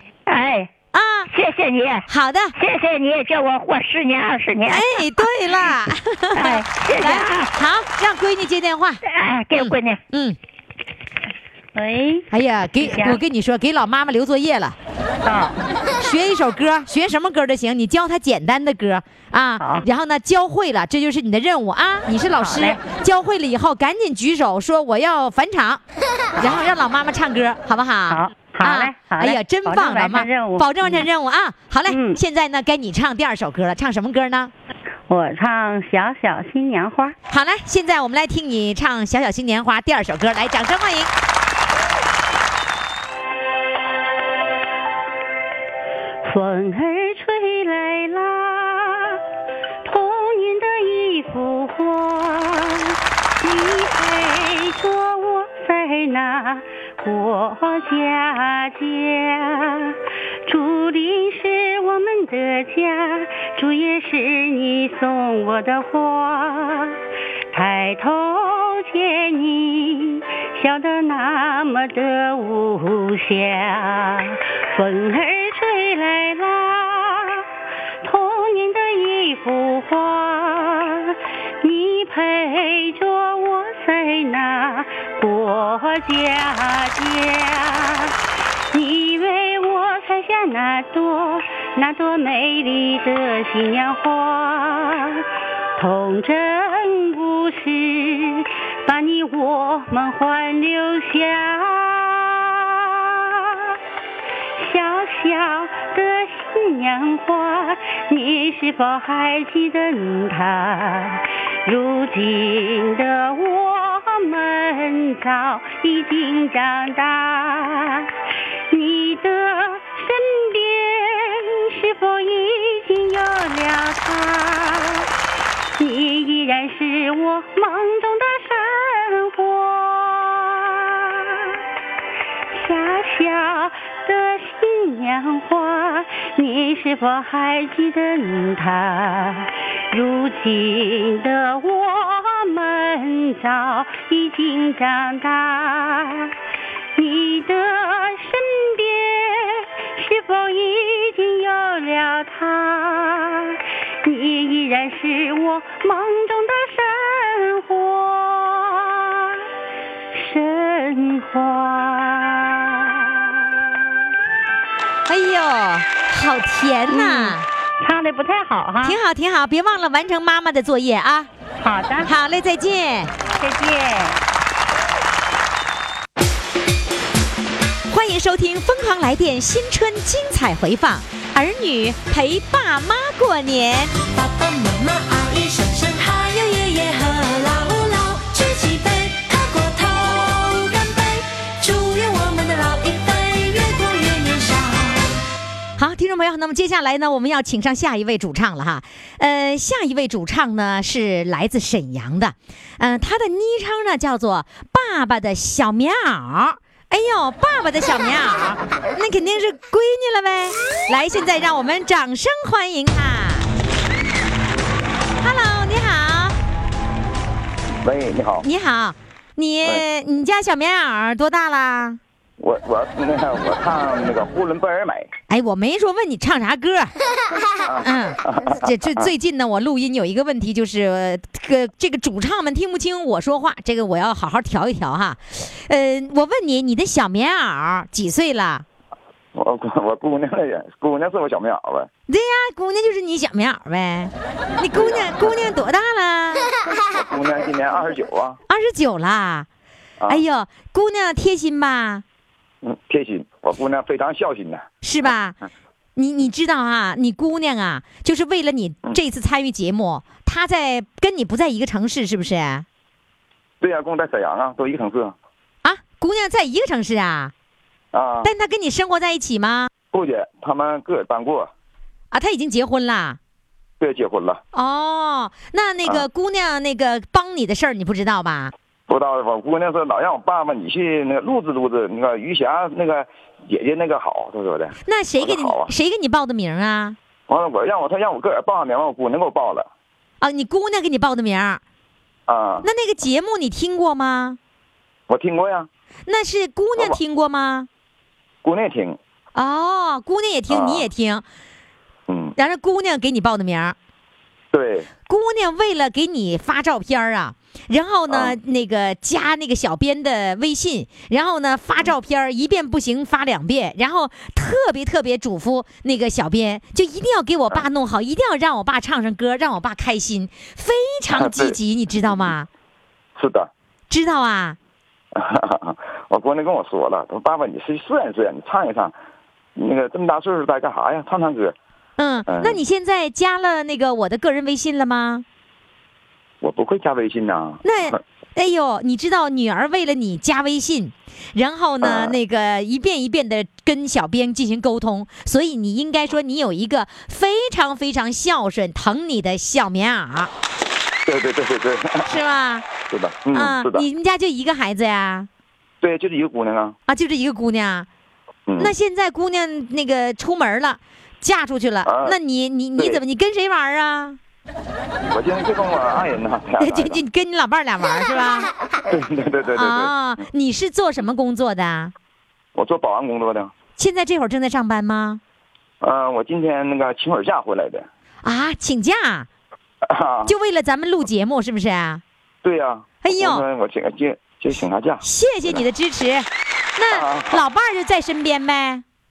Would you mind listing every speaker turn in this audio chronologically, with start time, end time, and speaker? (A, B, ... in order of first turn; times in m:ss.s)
0:00.3-0:00.7 A
0:00.9-0:01.3 B
0:01.3-0:05.2 A
0:02.1-0:02.6 B
0:04.6-0:09.0 B
0:06.3-0:07.5 A
0:09.0-0:10.0 A
0:09.5-0:10.4 B
0:11.7-0:12.3 C
0:12.3-0:14.8 B
0:12.8-0:13.2 C
0:15.2-0:15.6 C
0:16.0-0:25.8 B
0:19.6-0:19.8 C
0:22.4-0:22.8 C
0:26.4-0:34.5 B
0:28.1-0:31.0 C
0:31.9-0:32.2 C
0:35.1-0:37.2 C
0:37.3-0:41.1 B
0:46.2-0:49.2 C
0:49.8-1:07.0 C
1:07.5-1:17.4 C
1:18.0-1:28.2 C
1:28.7-1:35.2 C
1:35.8-1:43.6 C
1:44.6-1:58.1 C
1:58.7-2:05.1 C
2:05.8-2:11.5 C
2:12.5-2:26.3 C
2:27.0-2:39.4 C
2:40.1-2:43.3 C
2:45.1-2:47.4 B
2:46.9-2:49.0 C
2:48.8-2:51.3 B
2:51.6-2:52.1 C
2:52.0-2:53.1 B
2:53.3-2:54.2 C
2:57.9-3:03.9 B
3:04.0-3:15.2 D
3:15.8-3:33.5 B
3:35.2-3:36.4 B
3:37.8-3:38.5 E
3:38.4-3:42.0 B
3:42.4-3:45.1 E
3:45.3-3:46.9 B
3:47.6-3:49.1 E
3:47.8-3:58.6 B
3:59.3-4:01.9 E
4:02.1-4:06.5 B
4:04.7-4:05.3 E
4:06.9-4:08.4 E
4:08.5-4:09.5 B
4:10.1-4:12.0 B
4:12.6-4:14.6 E
4:14.8-4:15.4 B
4:16.0-4:22.6 B
4:23.6-4:25.2 E
4:25.6-4:27.3 B
4:27.9-4:28.3 E
4:28.2-4:29.7 B
4:29.9-4:31.5 E
4:32.1-4:33.2 B
4:33.8-4:34.4 E
4:34.5-4:38.5 B
4:38.9-4:45.7 E
4:44.8-4:47.0 B
4:47.3-4:49.7 E
4:50.2-4:51.6 B
4:52.3-4:52.7 E
4:52.6-4:54.4 B
4:55.1-4:55.7 E
4:56.0-4:57.7 B
4:58.4-4:59.0 E
4:59.3-5:01.2 B
5:00.5-5:00.8 E
5:02.1-5:02.3 E
5:02.4-5:03.8 B
5:04.5-5:04.9 E
5:05.1-5:22.5 B
5:08.1-5:08.3 E
5:21.1-5:21.5 E
5:23.2-5:23.5 E
5:23.9-5:24.6 B
5:25.1-5:28.9 E
5:29.6-5:31.6 E
5:32.0-5:35.2 B
5:32.3-5:32.6 E
5:36.4-5:38.0 E
5:37.6-5:50.3 B
5:41.8-5:42.2 E
5:51.0-5:52.1 E
5:52.0-5:52.7 B
5:52.9-5:53.8 E
5:53.3-5:55.3 B
5:55.8-5:56.8 E
5:56.9-5:57.9 B
5:58.5-5:58.7 E
5:58.6-6:04.2 B
6:01.8-6:02.2 E
6:05.1-6:07.0 E
6:06.6-6:08.5 B
6:08.9-6:09.9 E
6:09.5-6:11.9 B
6:12.5-6:13.5 E
6:13.8-6:15.2 B
6:15.8-6:17.8 E
6:18.2-6:19.3 B
6:19.8-6:20.3 E
6:20.2-6:22.0 B
6:22.4-6:25.6 E
6:23.0-6:23.4 B
6:25.0-6:28.8 B
6:26.9-6:27.4 E